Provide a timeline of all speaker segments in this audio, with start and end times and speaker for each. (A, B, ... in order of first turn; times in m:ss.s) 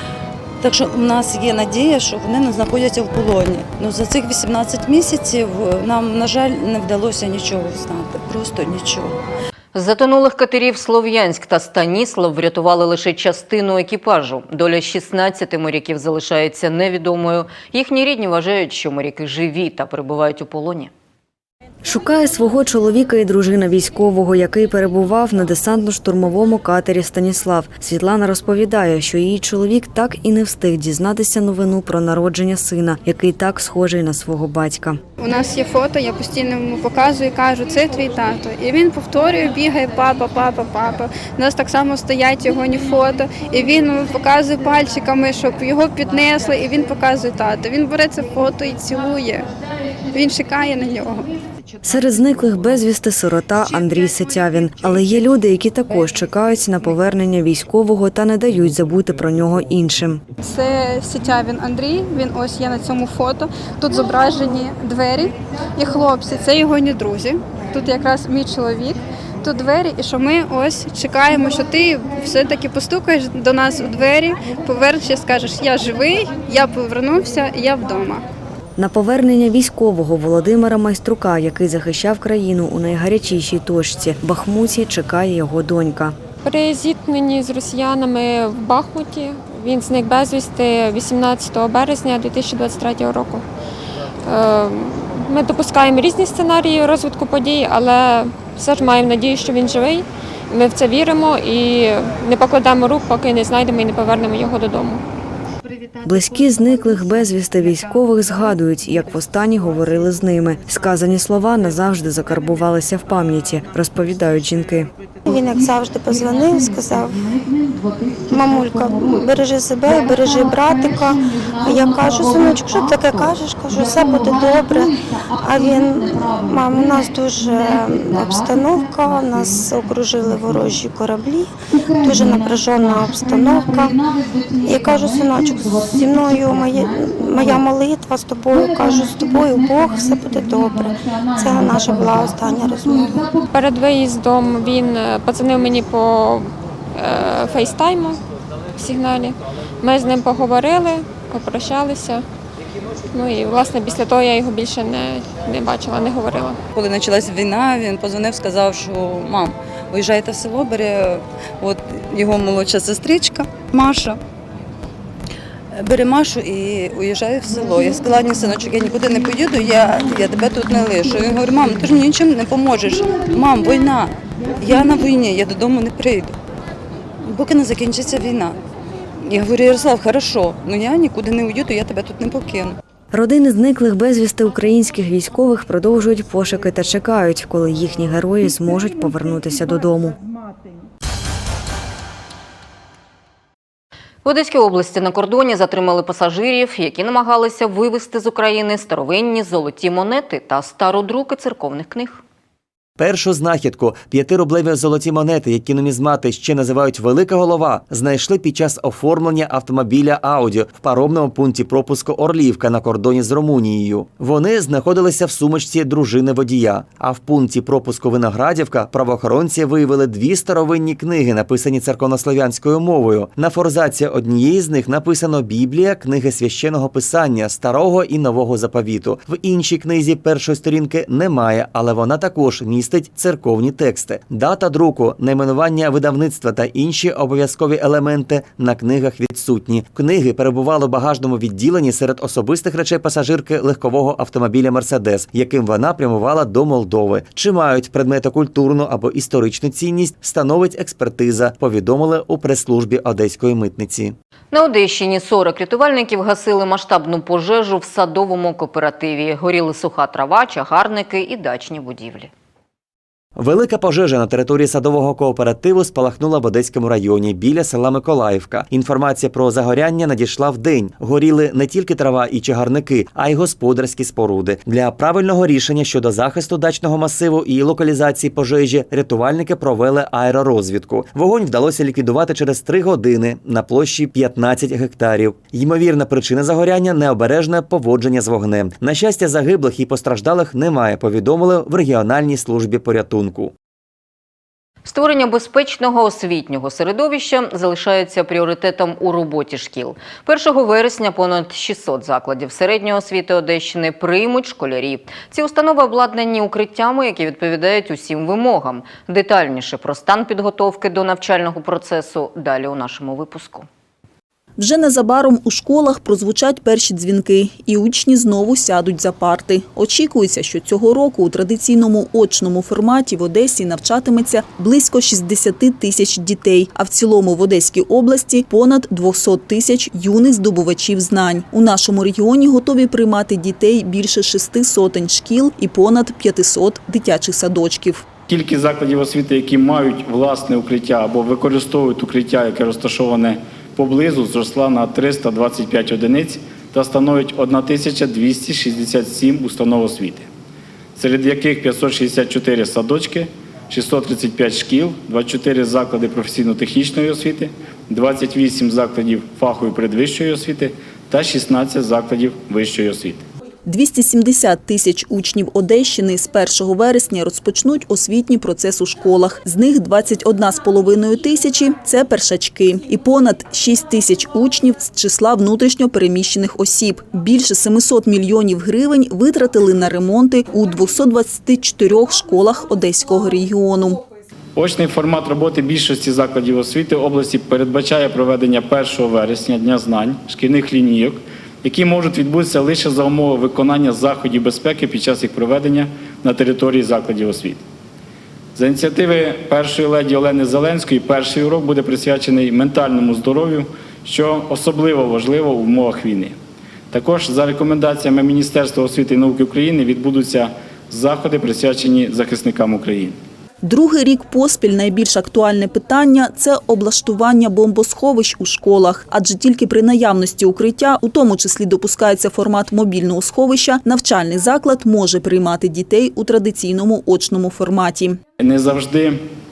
0:00.6-0:09.2 A
0:09.7-0:20.9 B
0:21.8-0:35.0 C
0:35.2-0:49.5 D
0:50.1-0:51.3 D
0:51.8-1:00.2 C
1:00.4-1:18.2 D
1:18.8-1:26.2 C
1:26.4-1:33.4 E
1:34.2-1:45.0 E
1:46.0-1:54.9 C
1:55.2-1:57.4 F
1:58.3-2:14.0 F
2:14.6-2:23.2 F
2:23.5-2:28.2 E
2:28.8-2:32.2 E
2:33.1-2:36.6 E
2:36.7-2:44.2 A
2:45.7-2:56.4 A
2:57.2-2:58.6 A
2:59.2-3:02.8 A
3:03.1-3:10.2 C
3:14.2-3:22.2 B
3:23.0-4:14.2 G
4:14.5-4:22.3 B
4:23.4-4:53.5 G
4:54.8-5:13.7 B
5:14.6-5:38.0 H
5:38.3-5:50.3 I
5:51.0-6:03.3 I
6:03.7-6:24.0 H
6:24.6-6:37.6 I
6:38.6-6:46.4 I
6:46.9-6:53.2 I
6:53.6-7:08.2 H
7:08.4-7:09.2 I